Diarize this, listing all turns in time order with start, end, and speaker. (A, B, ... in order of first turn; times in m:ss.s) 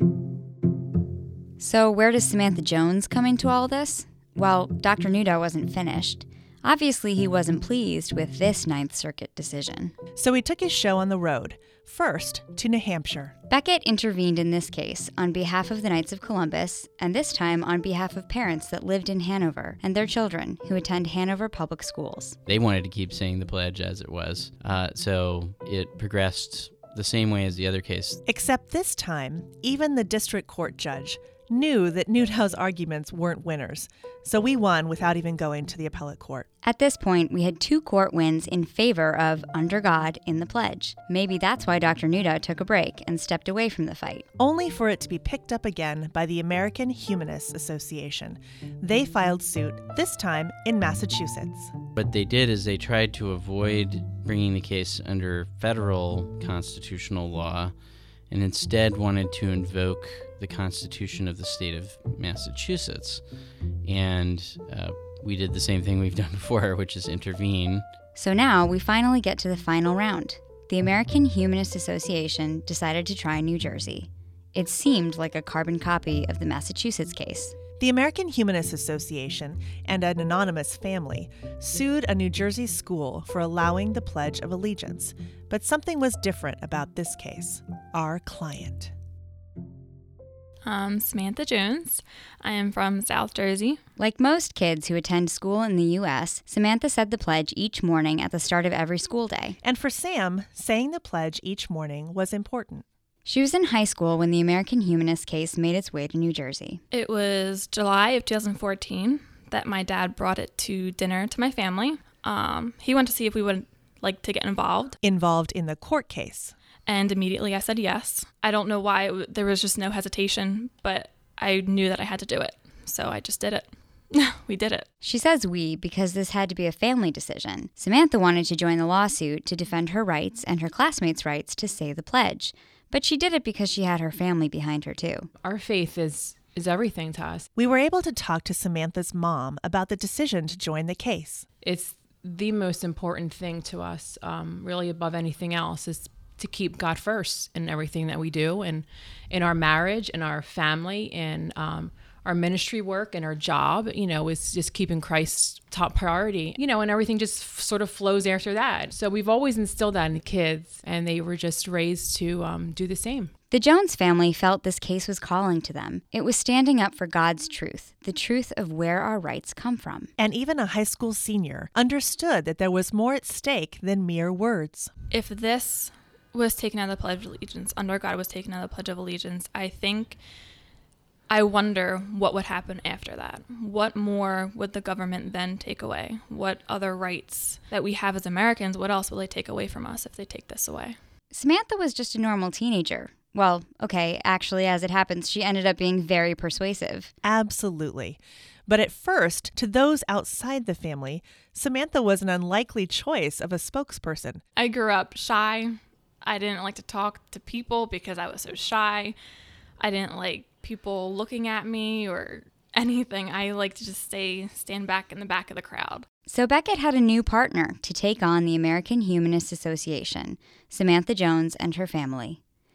0:01.6-0:09.9 A
0:10.2-0:13.4 B
0:13.5-0:22.4 A
0:22.5-0:28.2 C
0:28.3-0:36.5 B
0:36.6-0:44.3 A
0:44.4-0:51.7 B
0:52.0-0:57.7 C
0:58.3-1:03.2 C
1:03.8-1:07.8 C
1:08.2-1:17.6 A
1:17.8-1:28.9 B
1:30.7-1:33.8 D
1:34.0-1:39.6 A
1:39.6-1:42.8 B
1:43.2-1:46.8 A
1:46.9-1:55.0 D
1:55.0-1:56.6 B
1:56.9-2:04.9 D
2:05.0-2:15.3 A
2:15.4-2:17.5 E
2:17.6-2:21.5 B
2:21.6-2:43.3 E
2:43.5-2:50.1 A
2:50.2-2:54.9 B
2:55.1-3:00.2 D
3:01.3-3:11.0 D
3:11.3-3:17.1 A
3:17.2-3:24.4 B
3:24.6-3:29.2 D
3:29.8-3:36.1 D
3:36.3-3:42.4 A